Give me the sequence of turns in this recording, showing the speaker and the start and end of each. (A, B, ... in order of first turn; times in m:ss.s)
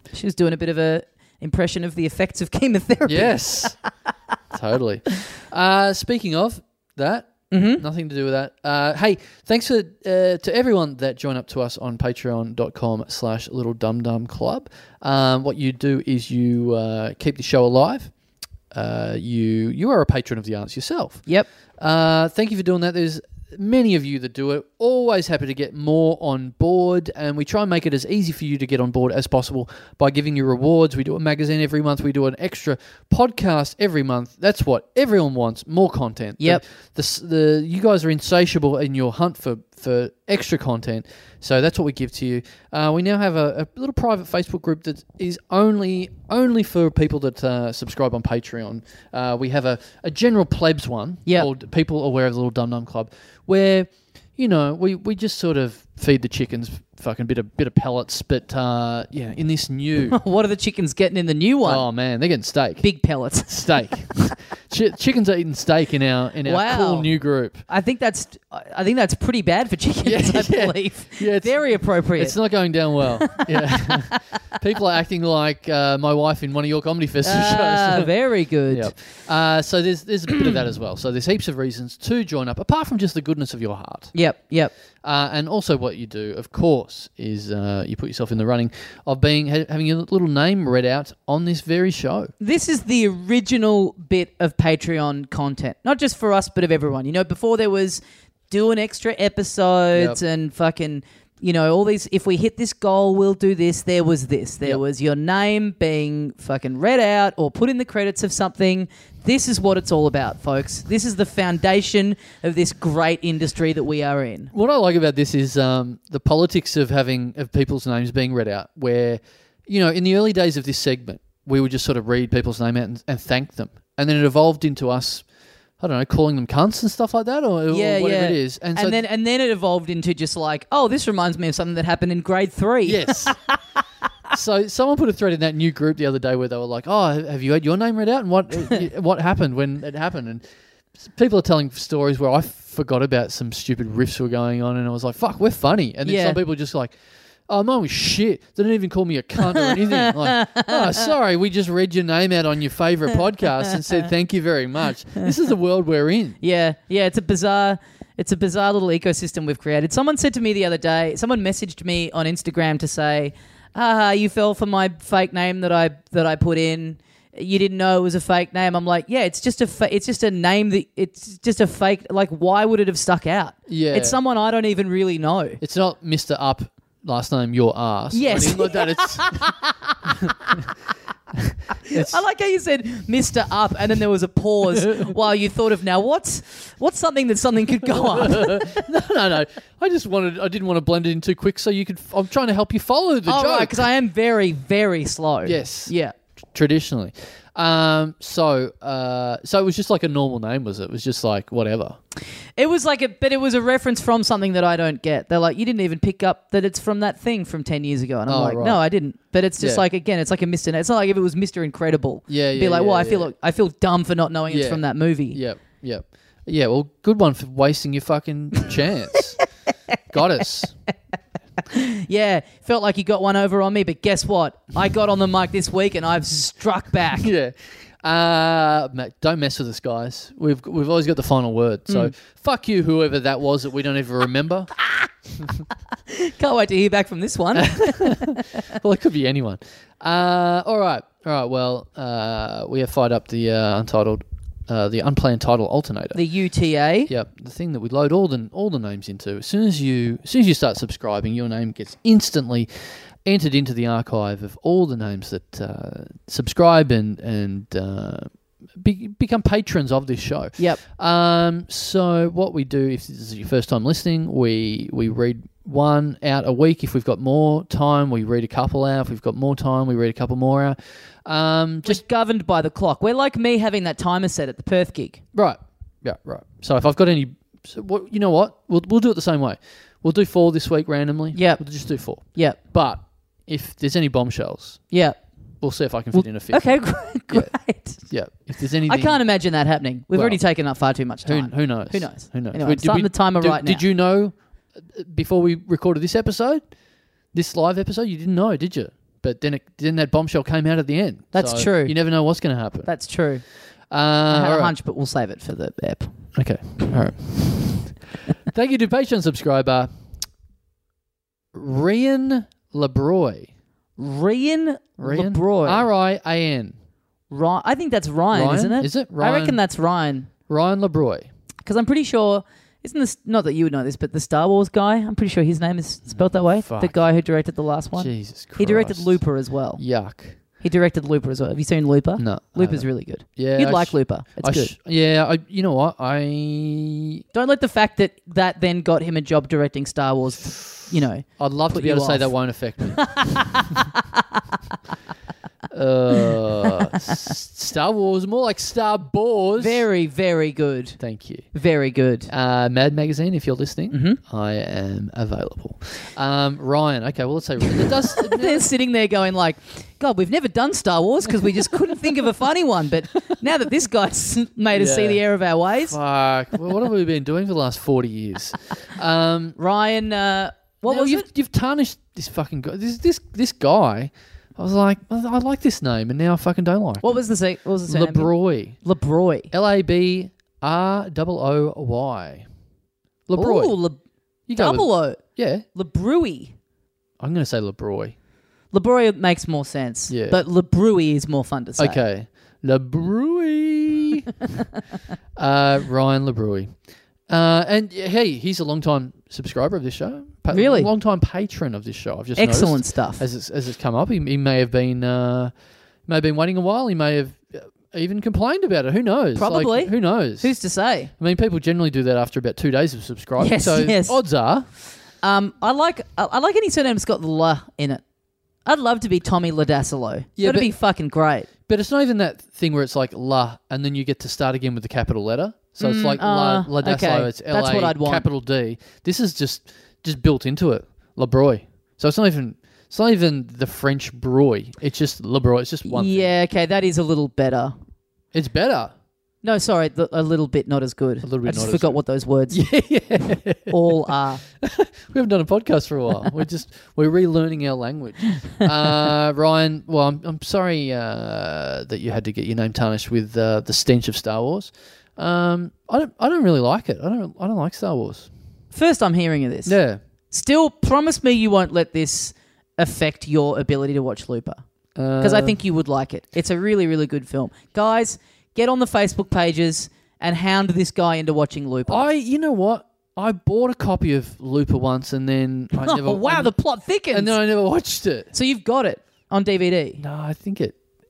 0:00.1-0:03.8 A
0:03.1-0:03.8 B
0:04.5-0:18.1 B
0:07.5-0:07.8 A
0:18.7-0:21.3 B
0:21.8-1:00.2 B
1:00.1-1:01.9 A
1:01.6-1:02.9 B
1:02.8-1:03.8 A
1:03.5-1:07.6 B
1:06.4-1:07.1 A
1:07.7-1:12.4 A
1:10.0-1:18.1 B
1:13.0-1:14.4 A
1:17.2-1:18.9 A
1:18.7-1:24.1 B
1:24.1-1:24.7 A
1:25.0-1:32.3 B
1:32.4-1:54.5 A
1:54.5-2:05.2 B
2:05.8-2:09.0 B
2:07.7-2:13.6 A
2:12.8-2:13.4 B
2:14.3-2:20.4 B
2:21.0-2:27.0 B
2:26.0-2:26.4 A
2:27.5-2:36.4 B
2:29.6-2:31.1 A
2:36.4-2:55.6 A
2:53.7-2:54.2 B
2:55.6-2:59.4 B
2:58.1-3:00.0 A
3:00.1-3:00.6 B
3:01.4-3:02.2 B
3:01.8-3:08.9 A
3:04.8-3:05.1 B
3:07.9-3:13.9 B
3:13.3-3:16.1 A
3:15.4-3:15.9 B
3:16.5-3:22.0 B
3:22.6-3:35.4 A
3:28.3-3:28.8 B
3:29.6-3:29.8 B
3:32.3-3:33.3 B
3:34.5-3:39.4 B
3:40.1-3:40.7 B
3:41.6-3:47.3 A
3:47.2-3:54.7 B
3:55.4-3:55.6 B
3:56.1-3:58.6 A
3:57.6-4:06.2 B
4:06.1-4:07.1 A
4:07.1-4:12.7 B
4:13.2-4:32.0 B
4:31.8-4:35.2 A
4:35.3-4:44.9 B
4:41.3-4:41.6 A
4:42.2-4:42.6 A
4:44.9-4:45.2 A
4:45.6-4:49.2 B
4:46.1-4:48.0 A
4:48.9-4:53.8 A
4:50.1-4:50.4 B
4:51.2-4:56.6 B
4:57.3-5:02.9 B
5:01.3-5:02.0 A
5:02.8-5:03.4 A
5:03.9-5:04.7 B
5:04.3-5:06.1 A
5:06.4-5:08.0 B
5:08.5-5:09.9 B
5:11.5-5:13.5 B
5:14.0-5:15.9 A
5:15.0-5:16.7 B
5:17.3-5:20.3 A
5:18.3-5:19.6 B
5:20.5-5:21.3 B
5:21.6-5:29.8 A
5:26.1-5:27.0 B
5:28.0-5:29.2 B
5:29.8-5:30.4 B
5:30.6-5:34.7 A
5:32.2-5:37.2 B
5:37.3-5:42.4 A
5:41.4-5:43.6 B
5:43.0-5:44.0 A
5:45.7-5:49.8 B
5:49.6-5:51.0 A
5:51.0-5:51.5 B
5:51.5-5:52.3 A
5:52.3-5:58.6 B
5:53.9-5:54.2 A
5:58.2-6:06.0 A
6:01.5-6:01.9 B
6:04.7-6:05.2 B
6:05.8-6:09.6 B
6:09.6-6:11.3 A
6:10.8-6:17.2 B
6:17.0-6:19.5 A
6:17.9-6:18.8 B
6:19.5-6:22.5 B
6:23.3-6:23.8 B
6:23.4-6:24.0 A
6:24.5-6:25.6 B
6:24.6-6:25.2 A
6:25.7-6:26.5 A
6:27.2-6:28.2 B
6:28.7-6:32.0 A
6:30.1-6:30.4 B
6:31.8-6:34.3 B
6:35.4-6:36.7 B
6:37.3-6:45.5 B
6:40.5-6:40.9 A
6:42.4-6:43.2 A
6:46.1-6:50.5 B
6:49.4-6:51.1 A
6:51.2-6:54.7 B
6:53.4-6:54.2 A
6:55.2-6:58.0 A
6:58.6-7:01.5 A
7:00.4-7:00.7 B
7:01.7-7:16.3 B
7:05.8-7:08.3 A
7:15.8-7:17.8 A
7:18.3-7:18.9 B
7:19.4-7:22.6 A
7:21.2-7:38.3 B
7:23.7-7:24.4 A
7:38.7-7:39.8 A
7:39.6-7:40.0 B
7:40.3-7:44.6 A
7:45.0-7:45.6 B
7:45.2-7:52.1 A
7:51.9-7:56.5 B
7:55.8-7:57.4 A
7:57.1-7:58.3 B
7:58.3-8:00.0 A
8:00.0-8:00.8 B